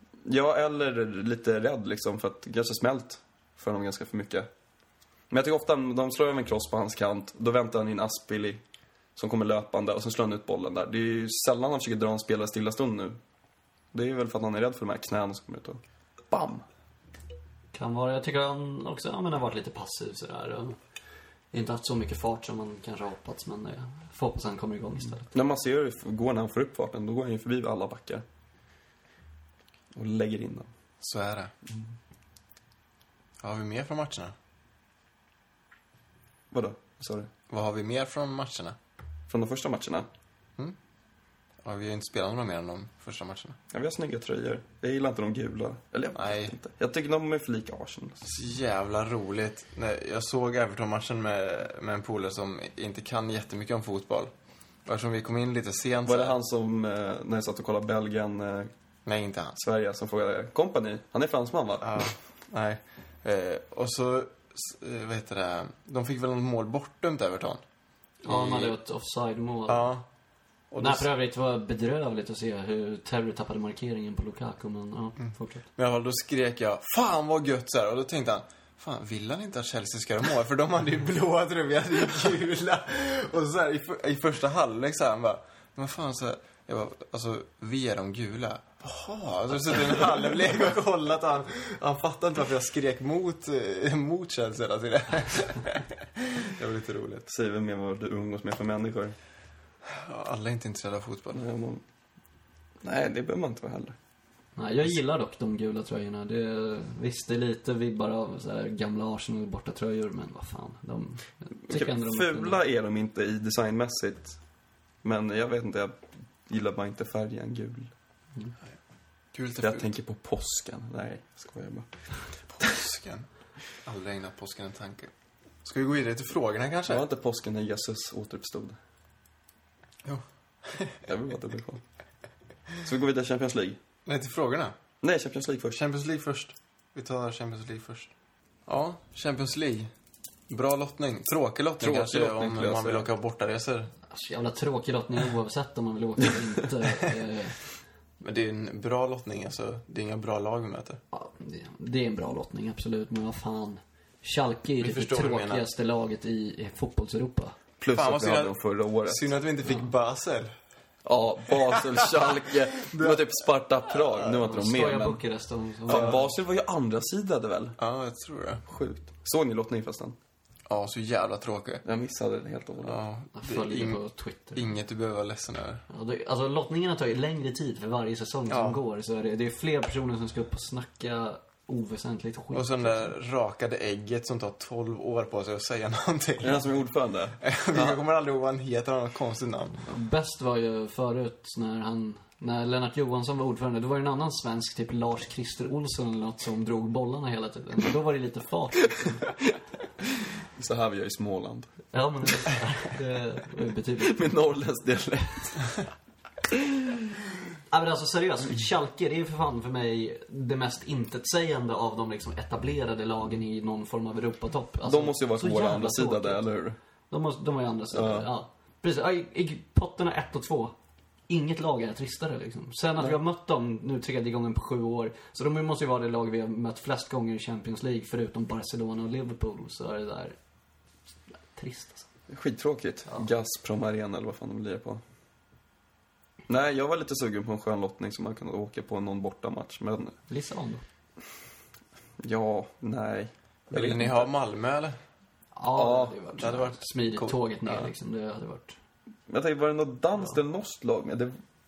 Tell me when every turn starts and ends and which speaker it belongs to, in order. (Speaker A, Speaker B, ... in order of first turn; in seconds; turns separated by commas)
Speaker A: 0.2-4.5, Speaker A: 5.3-8.6, Speaker A: 9.2-13.2, Speaker A: 13.9-16.6, Speaker B: 17.7-20.8, Speaker B: 21.5-25.3, Speaker A: 25.3-28.2, Speaker A: 29.9-30.7, Speaker C: 31.0-31.5, Speaker C: 33.4-34.3, Speaker A: 36.5-37.3, Speaker C: 37.5-38.8, Speaker A: 39.3-40.1, Speaker C: 41.6-43.6, Speaker A: 43.7-48.4, Speaker C: 46.1-46.5, Speaker C: 48.3-54.3, Speaker C: 54.9-56.4, Speaker A: 56.0-58.7, Speaker C: 59.0-59.6, Speaker A: 59.5-62.0, Speaker C: 61.8-67.6, Speaker C: 68.2-68.7, Speaker B: 68.2-69.9, Speaker C: 69.7-70.0, Speaker C: 70.7-71.1, Speaker B: 70.8-75.7, Speaker C: 75.8-97.2, Speaker A: 97.3-99.2, Speaker C: 99.8-101.4, Speaker A: 101.3-101.8, Speaker A: 102.8-104.0, Speaker B: 104.5-112.6, Speaker A: 111.7-114.4, Speaker A: 115.0-117.9, Speaker C: 119.3-119.9, Speaker A: 119.6-121.9, Speaker C: 122.5-123.3, Speaker C: 123.8-125.1, Speaker C: 125.6-127.0, Speaker A: 126.9-128.8, Speaker C: 130.0-131.0, Speaker A: 131.1-131.8, Speaker A: 132.8-133.8, Speaker C: 134.1-134.8, Speaker A: 135.0-135.8, Speaker C: 135.7-138.1, Speaker C: 138.7-139.9, Speaker C: 140.5-143.9, Speaker A: 141.8-143.1, Speaker B: 144.1-147.6, Speaker C: 148.2-151.0, Speaker B: 151.1-157.6, Speaker C: 154.8-155.6, Speaker A: 157.8-159.3, Speaker C: 157.9-160.5, Speaker A: 161.0-165.2, Speaker C: 162.8-163.2, Speaker B: 164.3-166.3, Speaker A: 165.9-167.8, Speaker C: 167.8-168.6, Speaker A: 168.7-170.2, Speaker C: 170.7-171.8, Speaker A: 171.8-173.0, Speaker C: 172.8-174.0, Speaker B: 173.3-174.6, Speaker C: 174.5-175.8, Speaker B: 175.9-183.1, Speaker C: 178.5-178.8, Speaker C: 182.5-186.7, Speaker A: 186.4-188.0, Speaker C: 187.4-189.8, Speaker B: 189.8-199.4, Speaker A: 200.6-201.7, Speaker B: 201.9-204.3, Speaker A: 204.0-205.8, Speaker B: 207.7-216.4, Speaker A: 214.8-216.8, Speaker B: 217.1-220.7, Speaker A: 217.9-218.3, Speaker B: 221.3-230.3, Speaker B: 231.5-232.1, Speaker A: 232.3-235.0, Speaker A: 236.5-240.2, Speaker B: 240.3-240.8, Speaker A: 242.2-244.3, Speaker C: 243.7-245.0, Speaker B: 245.5-248.8, Speaker A: 245.7-246.2, Speaker C: 246.4-247.4, Speaker A: 249.3-251.3